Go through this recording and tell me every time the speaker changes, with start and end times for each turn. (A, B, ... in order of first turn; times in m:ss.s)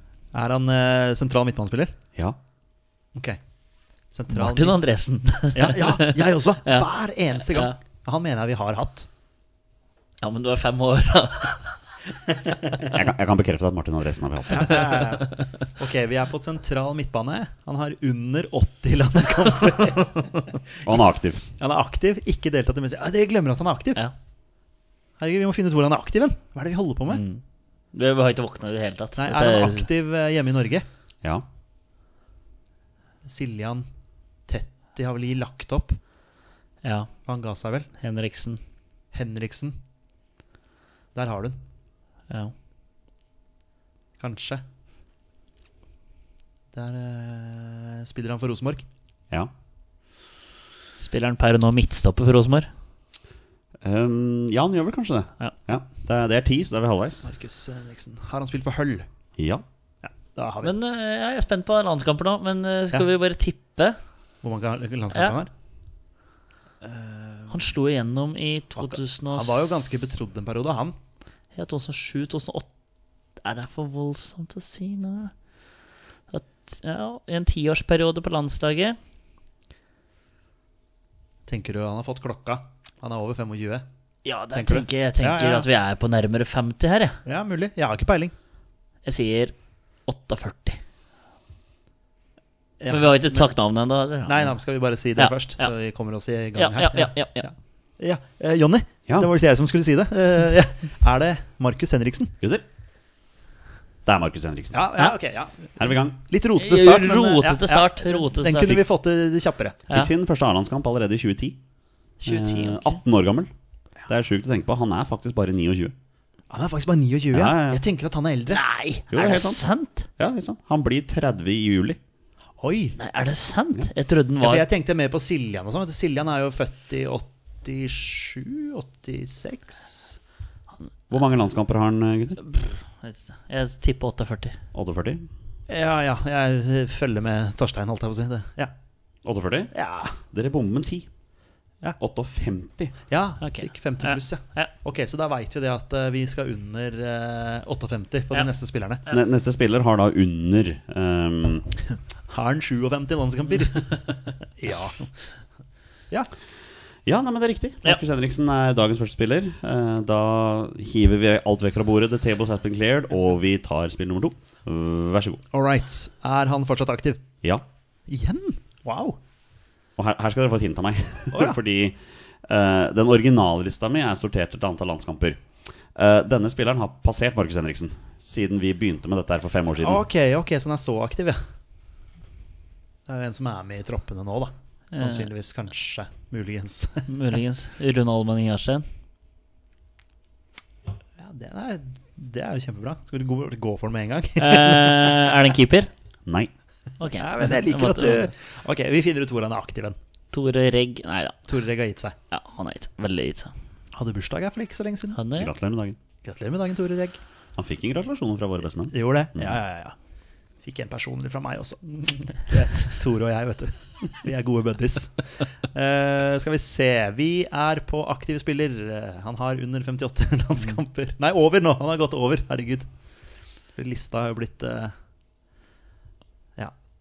0:00.3-0:01.9 A
0:04.1-0:04.8 A
0:04.3-0:06.9 B
0:05.5-0:09.1 A
0:07.4-0:07.8 B
0:10.2-0:11.7 B
0:12.6-0:12.9 A
0:12.8-0:15.0 C
0:14.5-0:20.9 A
0:14.9-0:15.5 B
0:20.8-0:21.4 C
0:21.6-0:24.0 A
0:25.2-0:27.2 A
0:27.1-0:27.4 B
0:27.9-0:29.8 B
0:29.2-0:30.8 A
0:33.2-0:33.8 A
0:34.5-0:36.0 A
0:36.8-0:37.1 B
0:37.2-0:37.9 A
0:38.0-0:38.6 B
0:39.1-0:39.8 A
0:41.1-0:41.6 A
0:44.2-0:44.6 A
0:46.7-0:48.8 A
0:51.0-0:52.7 B
0:53.8-0:57.2 C
0:57.2-0:59.0 A
0:59.4-0:59.6 C
1:00.0-1:00.7 A
1:00.6-1:04.0 B
1:04.4-1:05.5 A
1:06.8-1:07.6 A
1:07.5-1:09.9 B
1:08.8-1:11.0 A
1:11.5-1:12.7 B
1:13.4-1:15.3 B
1:16.3-1:19.0 B
1:21.5-1:23.8 A
1:24.2-1:27.2 B
1:24.5-1:25.7 A
1:27.2-1:28.3 A
1:29.0-1:30.8 B
1:32.8-1:33.5 A
1:32.9-1:34.5 B
1:34.2-1:42.3 A
1:35.2-1:35.7 B
1:36.6-1:37.5 B
1:42.4-1:42.6 C
1:44.0-1:44.9 C
1:44.7-1:49.9 A
1:45.8-1:46.2 C
1:46.6-1:48.8 B
1:49.9-1:51.6 C
1:52.2-1:53.0 B
1:52.2-1:53.5 C
1:54.1-1:55.9 C
1:56.5-1:58.6 A
1:57.3-1:57.8 C
1:58.5-2:00.1 B
1:59.1-1:59.6 C
2:00.2-2:02.0 C
2:02.6-2:03.0 A
2:03.0-2:04.6 B
2:04.4-2:10.2 A
2:11.1-2:12.4 C
2:12.4-2:14.6 B
2:14.7-2:15.3 C
2:15.7-2:18.7 A
2:19.2-2:19.7 C
2:19.7-2:20.2 A
2:20.2-2:21.1 C
2:22.0-2:22.9 C
2:23.1-2:29.0 A
2:23.4-2:24.7 B
2:29.1-2:31.7 C
2:32.3-2:35.1 A
2:37.0-2:45.4 C
2:45.5-2:47.2 A
2:48.1-2:49.2 A
2:50.0-2:55.4 C
2:51.3-2:51.6 A
2:55.9-3:00.0 C
2:59.8-3:01.4 A
3:03.1-3:07.1 A
3:04.9-3:05.3 B
3:07.1-3:08.8 B
3:11.2-3:15.4 A
3:14.4-3:15.9 B
3:16.2-3:16.5 C
3:17.0-3:18.3 B
3:17.2-3:20.0 A
3:20.3-3:21.4 B
3:21.5-3:22.2 A
3:22.3-3:23.5 B
3:23.9-3:25.2 A
3:25.1-3:25.5 B
3:25.4-3:26.0 C
3:26.2-3:27.2 A
3:27.6-3:29.6 C
3:28.9-3:29.9 A
3:30.6-3:42.9 A
3:43.8-3:44.9 A